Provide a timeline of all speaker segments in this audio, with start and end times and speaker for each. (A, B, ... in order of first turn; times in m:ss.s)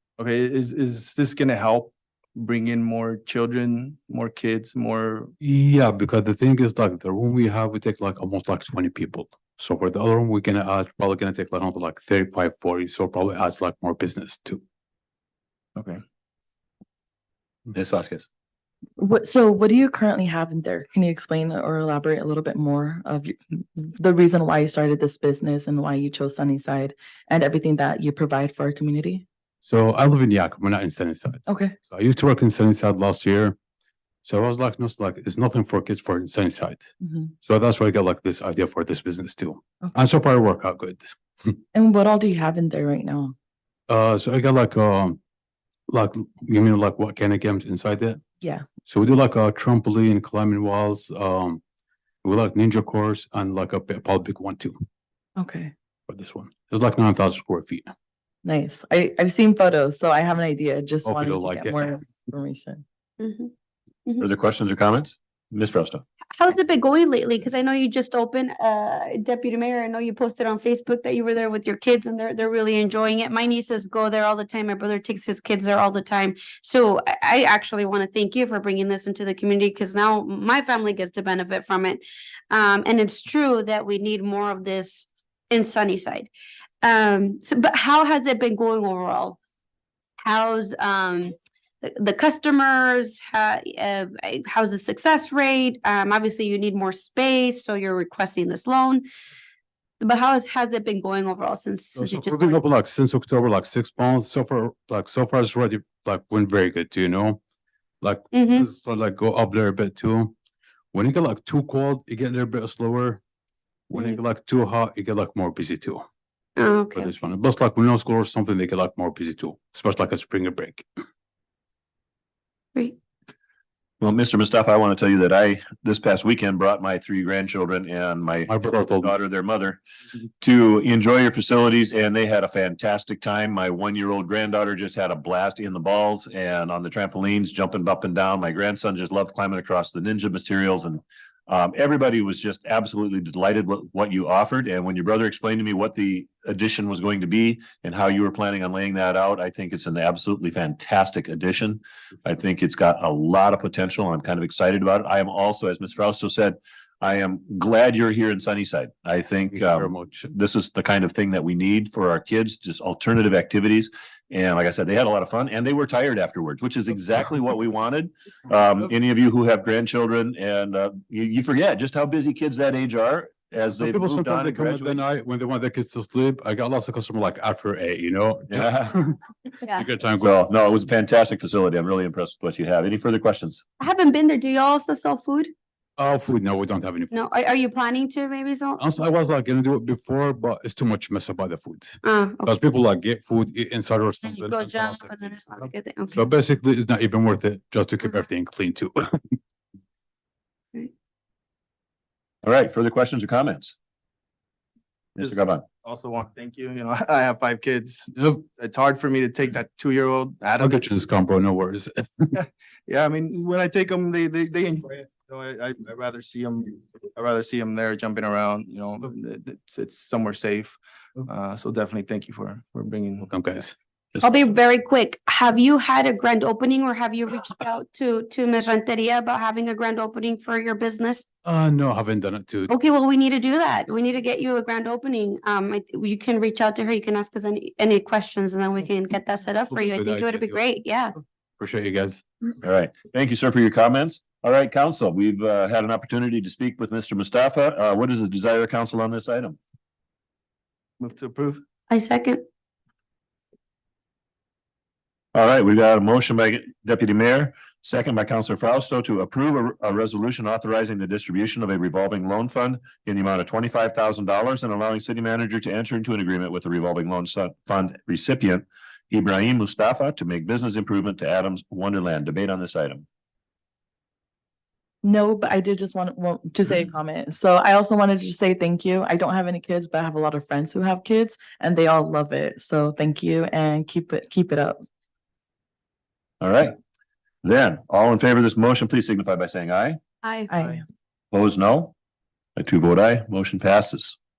0:00.2-0:05.3 A
0:05.4-0:14.6 B
0:15.7-0:16.0 A
0:17.7-0:18.2 C
0:19.0-0:29.2 D
0:29.6-0:33.6 B
0:31.5-0:31.7 D
0:34.2-0:41.5 B
0:37.0-0:37.3 D
0:41.7-0:43.3 D
0:43.9-0:45.2 B
0:45.9-0:48.2 B
0:48.8-0:51.6 B
0:52.2-0:54.8 B
0:55.4-0:55.7 D
0:56.1-0:57.9 B
0:58.4-1:02.8 D
1:01.0-1:02.0 B
1:03.2-1:03.5 E
1:04.2-1:06.0 C
1:06.4-1:26.3 E
1:26.8-1:29.4 E
1:30.2-1:39.0 E
1:40.0-1:42.6 E
1:42.0-1:47.4 B
1:48.0-1:50.3 B
1:48.3-1:48.7 E
1:50.9-1:53.2 B
1:53.9-1:56.0 B
1:53.9-1:54.2 E
1:56.6-1:57.1 E
1:56.9-2:00.8 B
2:04.0-2:09.8 C
2:08.5-2:09.1 B
2:10.4-2:55.0 C
2:39.5-2:40.3 B
2:53.8-3:00.3 B
2:58.5-2:58.9 C
3:00.2-3:03.6 C
3:03.8-3:05.5 E
3:06.0-3:07.1 B
3:07.1-3:08.8 E
3:08.8-3:19.4 B
3:12.0-3:12.6 E
3:14.2-3:16.3 E
3:22.4-3:23.8 C
3:25.2-3:25.6 C
3:25.2-3:30.9 A
3:28.2-3:28.4 B
3:30.6-3:32.3 B
3:32.3-3:43.3 A
3:43.2-3:43.7 B
3:44.1-3:44.4 C
3:44.2-3:51.2 E
3:51.4-3:52.7 B
3:52.7-4:01.1 E
3:59.7-4:00.6 B
4:01.6-4:02.2 B
4:02.6-4:09.6 C
4:11.0-4:11.6 A
4:11.9-4:12.4 E
4:15.3-4:33.0 C
4:35.0-4:44.8 D
4:46.4-4:46.7 C
4:47.4-4:50.0 C
4:50.5-4:50.8 D
4:51.3-4:51.9 C
4:52.6-4:54.2 C